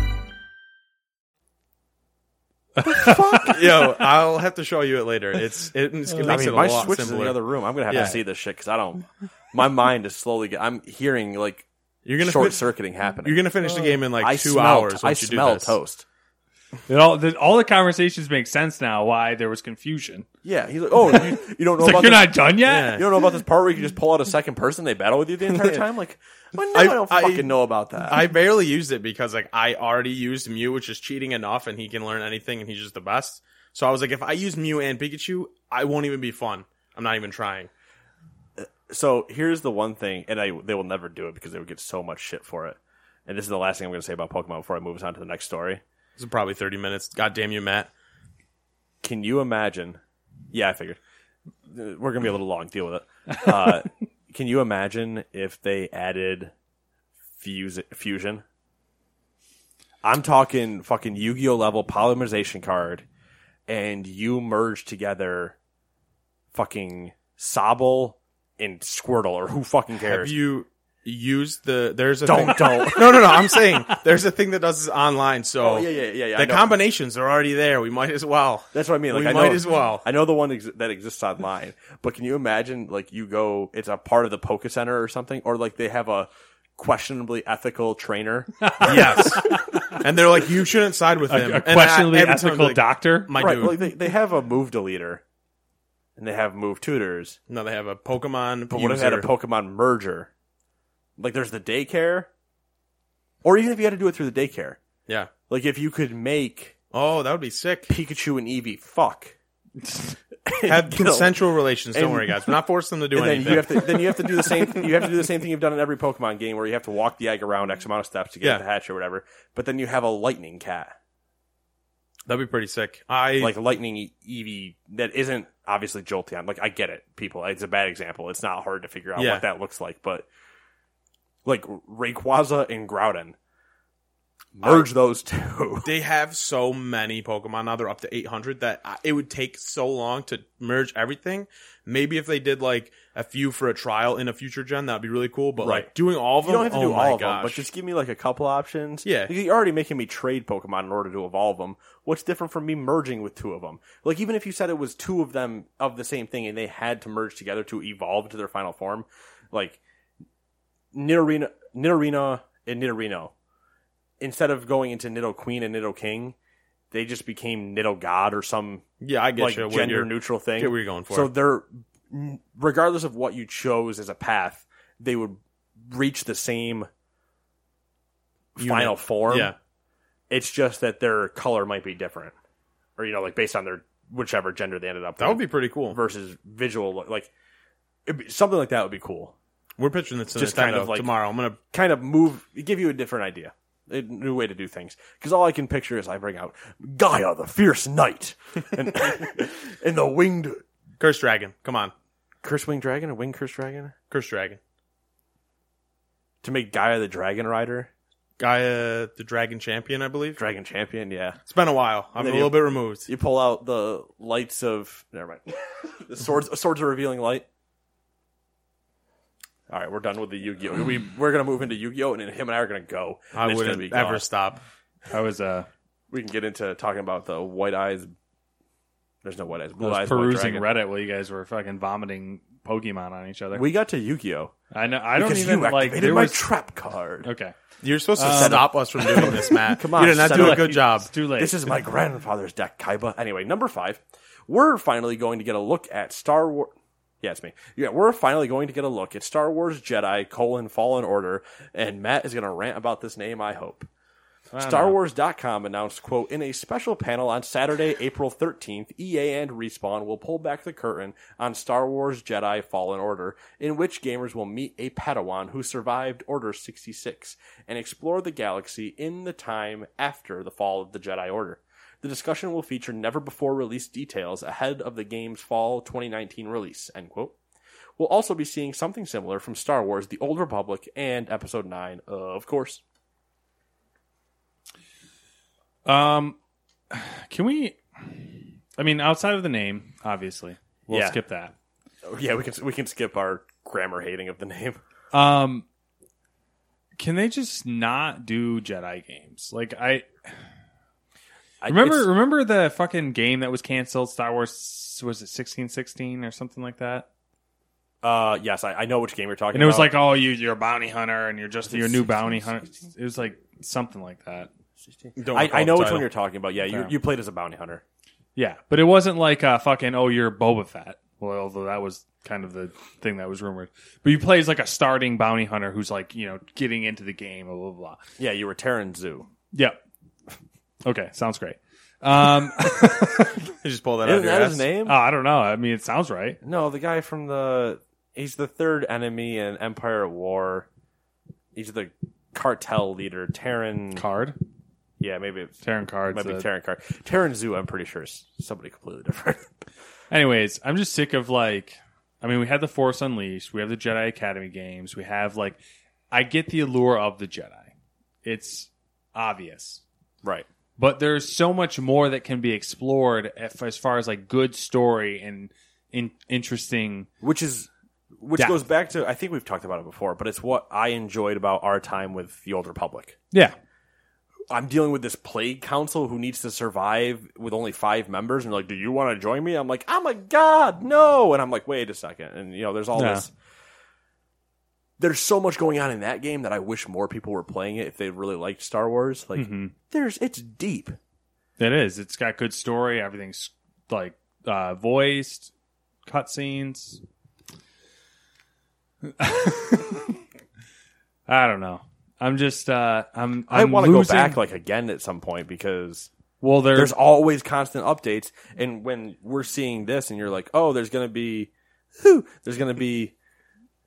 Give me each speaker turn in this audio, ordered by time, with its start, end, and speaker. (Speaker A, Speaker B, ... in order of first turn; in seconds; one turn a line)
Speaker A: 2.8-3.4
Speaker B: 2.9-3.7
Speaker C: 3.0-7.4
Speaker B: 6.2-11.7
Speaker C: 7.9-8.2
Speaker C: 12.1-12.7
Speaker B: 12.2-16.1
Speaker C: 13.2-15.8
Speaker A: 16.9-20.3
Speaker B: 20.4-28.3
Speaker A: 21.8-23.0
Speaker C: 22.6-23.1
Speaker C: 26.7-27.5
Speaker C: 28.0-37.7
Speaker B: 38.6-45.8
Speaker C: 46.2-47.9
Speaker B: 49.0-50.0
Speaker B: 50.5-51.0
Speaker B: 51.7-56.5
Speaker B: 57.4-58.4
Speaker B: 60.0-63.0
Speaker B: 63.7-65.6
Speaker B: 66.5-70.4
Speaker C: 70.0-80.0
Speaker B: 72.2-73.6
Speaker B: 75.6-76.8
Speaker B: 78.7-89.3
Speaker A: 88.6-90.0
Speaker C: 88.8-93.9
Speaker A: 91.3-93.4
Speaker B: 93.4-95.2
Speaker B: 96.2-97.4
Speaker C: 97.5-99.3
Speaker B: 98.7-100.3
Speaker B: 101.2-102.3
Speaker B: 103.4-104.8
Speaker B: 105.5-106.8
Speaker C: 106.9-107.9
Speaker B: 107.9-109.3
Speaker B: 110.5-112.6
Speaker C: 110.7-114.9
Speaker B: 113.1-120.9
Speaker C: 122.3-123.5
Speaker B: 123.4-130.3
Speaker C: 129.2-129.4
Speaker B: 131.4-133.4
Speaker B: 134.6-135.9
Speaker C: 134.6-134.9
Speaker C: 135.8-147.7
Speaker B: 145.6-145.9
Speaker B: 146.4-159.8
Speaker C: 149.1-149.3
Speaker B: 160.9-163.3
Speaker B: 164.2-166.3
Speaker B: 166.9-168.8
Speaker C: 169.0-171.3
Speaker B: 169.4-176.9
Speaker B: 178.6-179.5
Speaker C: 178.6-179.6
Speaker B: 180.3-182.3
Speaker B: 183.0-187.3
Speaker C: 185.2-186.0
Speaker B: 188.1-189.3
Speaker C: 189.8-191.6
Speaker B: 190.3-191.1
Speaker B: 191.7-200.6
Speaker C: 201.0-201.9
Speaker B: 202.4-203.9
Speaker C: 204.1-204.6
Speaker B: 206.4-207.9
Speaker C: 208.4-210.4
Speaker B: 210.4-211.4
Speaker C: 211.5-213.1
Speaker B: 212.2-217.4
Speaker B: 219.7-224.3
Speaker C: 223.3-224.6
Speaker A: 225.1-225.7
Speaker B: 226.1-228.1
Speaker B: 229.2-230.7
Speaker A: 229.8-233.7
Speaker B: 233.5-234.5
Speaker A: 234.7-236.4
Speaker B: 235.2-237.3
Speaker A: 237.2-237.5
Speaker C: 237.8-241.1
Speaker A: 238.2-239.3
Speaker B: 238.2-253.9
Speaker A: 240.2-241.6
Speaker A: 254.5-254.9
Speaker B: 254.6-277.3
Speaker B: 278.0-282.8
Speaker A: 285.9-286.4
Speaker A: 286.9-291.5
Speaker B: 290.9-291.2
Speaker B: 292.1-294.8
Speaker A: 295.1-295.6
Speaker A: 297.0-300.1
Speaker B: 301.6-302.1
Speaker A: 301.7-307.1
Speaker B: 308.0-309.9
Speaker A: 309.5-314.5
Speaker B: 311.7-312.5
Speaker B: 315.0-317.8
Speaker C: 315.2-316.1
Speaker A: 318.4-328.0
Speaker B: 328.2-329.3
Speaker A: 329.5-329.8
Speaker A: 330.9-333.4
Speaker C: 333.6-334.6
Speaker B: 334.0-335.0
Speaker A: 334.9-336.4
Speaker B: 336.4-340.7
Speaker B: 341.6-344.0
Speaker A: 343.9-344.4
Speaker B: 345.0-349.5
Speaker A: 345.6-346.5
Speaker A: 350.1-355.6
Speaker A: 356.1-357.7
Speaker A: 358.2-359.8
Speaker A: 360.8-367.1
Speaker B: 367.2-367.7
Speaker B: 368.2-373.2
Speaker B: 374.5-383.3
Speaker A: 382.9-383.3
Speaker B: 385.0-391.0
Speaker A: 389.4-389.7
Speaker A: 391.6-395.5
Speaker A: 396.1-397.0
Speaker A: 399.1-400.2
Speaker A: 401.3-404.4
Speaker B: 403.5-406.1
Speaker A: 406.4-406.9
Speaker B: 406.7-413.1